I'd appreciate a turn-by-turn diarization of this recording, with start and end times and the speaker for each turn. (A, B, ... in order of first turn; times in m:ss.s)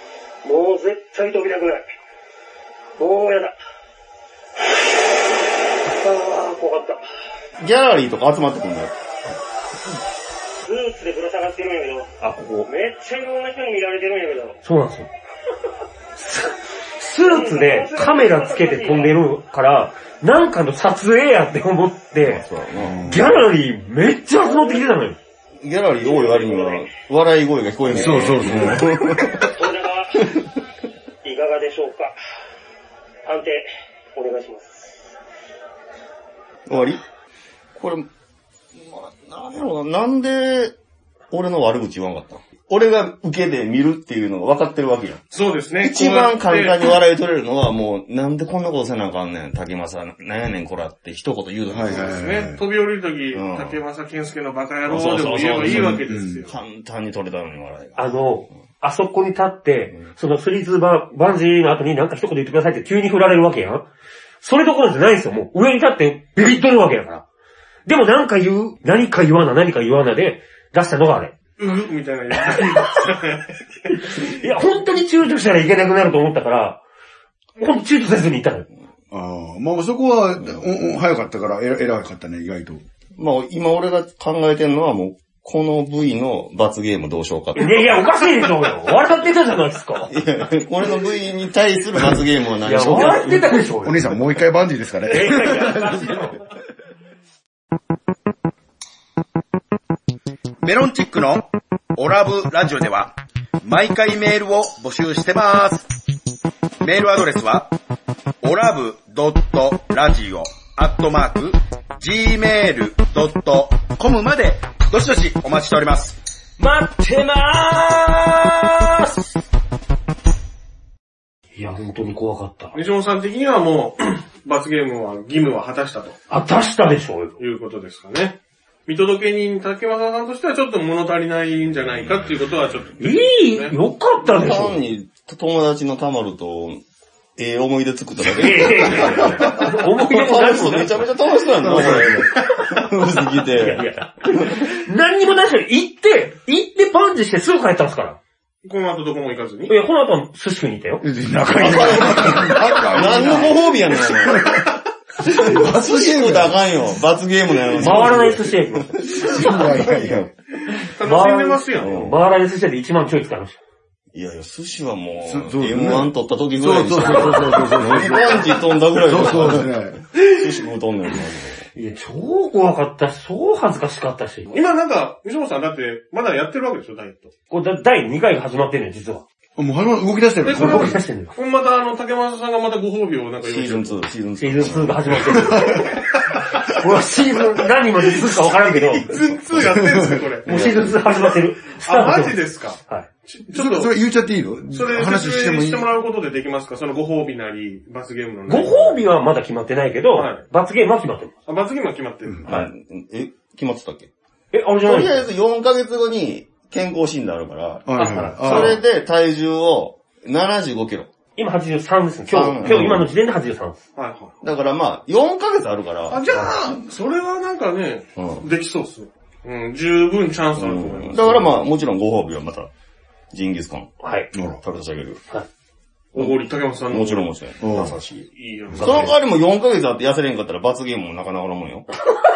0:00.4-0:01.9 A
0:03.0-0:03.5 A
0:06.0-0:07.0 A
0:07.6-0:08.9 B
0:10.6-0:12.1 A
0:12.2-0:12.7 C
0:12.6-0:14.6 A
0:14.6-0:15.1 C
0:16.2-0:22.4 C
0:17.2-0:19.2 A
0:22.2-0:23.1 B
0:22.8-0:23.3 D
0:23.0-0:25.2 C
0:24.4-0:24.8 A
0:25.6-0:29.5 B
0:26.0-0:26.9 A
0:27.9-0:29.0 D
0:29.4-0:30.2 A
0:31.2-0:32.1 A
0:33.2-0:35.0 A
0:36.7-0:37.0 B
0:37.7-0:38.1 B
0:38.7-0:40.7 B
0:41.3-0:45.2 B
0:45.3-0:47.0 E
0:45.8-0:52.2 B
0:51.7-0:52.6 D
0:51.9-0:56.5 E
0:53.3-0:53.8 B
0:54.9-0:58.2 B
0:55.6-0:56.4 D
0:58.0-1:03.9 C
1:04.4-1:07.2 C
1:07.9-1:11.3 C
1:11.6-1:13.5 E
1:13.9-1:16.8 C
1:17.6-1:18.6 C
1:19.1-1:22.8 D
1:23.2-1:28.2 B
1:27.6-1:30.1 C
1:30.1-1:33.6 B
1:32.6-1:34.0 C
1:33.8-1:36.3 D
1:35.1-1:36.4 C
1:40.6-1:45.9 F
1:46.8-1:47.7 F
1:48.4-1:56.2 F
1:56.6-1:58.6 C
2:01.6-2:02.8 C
2:02.7-2:06.2 E
2:06.3-2:07.4 C
2:07.4-2:13.8 E
2:13.0-2:14.8 C
2:14.2-2:16.8 B
2:17.4-2:24.7 B
2:18.3-2:21.1 C
2:21.6-2:22.3 D
2:23.6-2:28.2 C
2:28.6-2:29.8 E
2:29.7-2:31.0 C
2:31.0-2:36.6 D
2:31.5-2:34.6 B
2:35.2-2:40.3 B
2:37.7-2:39.0 C
2:37.9-2:38.2 D
2:39.1-2:40.3 D
2:41.0-2:42.0 E
2:41.0-2:43.6 C
2:41.8-2:42.2 B
2:44.1-2:51.7 B
2:45.2-2:50.0 D
2:51.7-2:54.5 C
2:54.5-2:57.3 E
2:57.5-2:59.2 C
2:59.6-3:01.0 D
3:00.4-3:04.1 E
3:00.5-3:01.3 C
3:03.4-3:05.7 B
3:04.4-3:06.0 C
3:06.7-3:09.1 C
3:08.9-3:09.8 B
3:09.0-3:10.6 E
3:09.6-3:10.2 D
3:10.4-3:10.9 B
3:10.4-3:13.1 C
3:11.8-3:13.9 E
3:13.5-3:15.9 D
3:14.7-3:19.0 E
3:18.5-3:21.3 C
3:20.1-3:20.4 E
3:21.5-3:22.5 E
3:22.3-3:22.6 D
3:22.4-3:24.1 B
3:24.5-3:25.2 C
3:24.8-3:31.1 B
3:27.9-3:28.8 D
3:28.0-3:28.8 E
3:31.4-3:33.8 C
3:32.3-3:33.1 B
3:34.0-3:34.4 E
3:34.4-3:36.2 B
3:36.1-3:41.6 E
3:36.3-3:36.6 C
3:38.2-3:38.5 B
3:40.5-3:42.7 B
3:43.3-3:43.9 B
3:44.0-3:44.3 C
3:44.3-3:44.6 D
3:44.6-3:45.2 B
3:46.1-3:47.3 E
3:46.2-3:51.9 B
3:47.6-3:48.0 D
3:48.3-3:49.2 E
3:48.8-3:49.1 C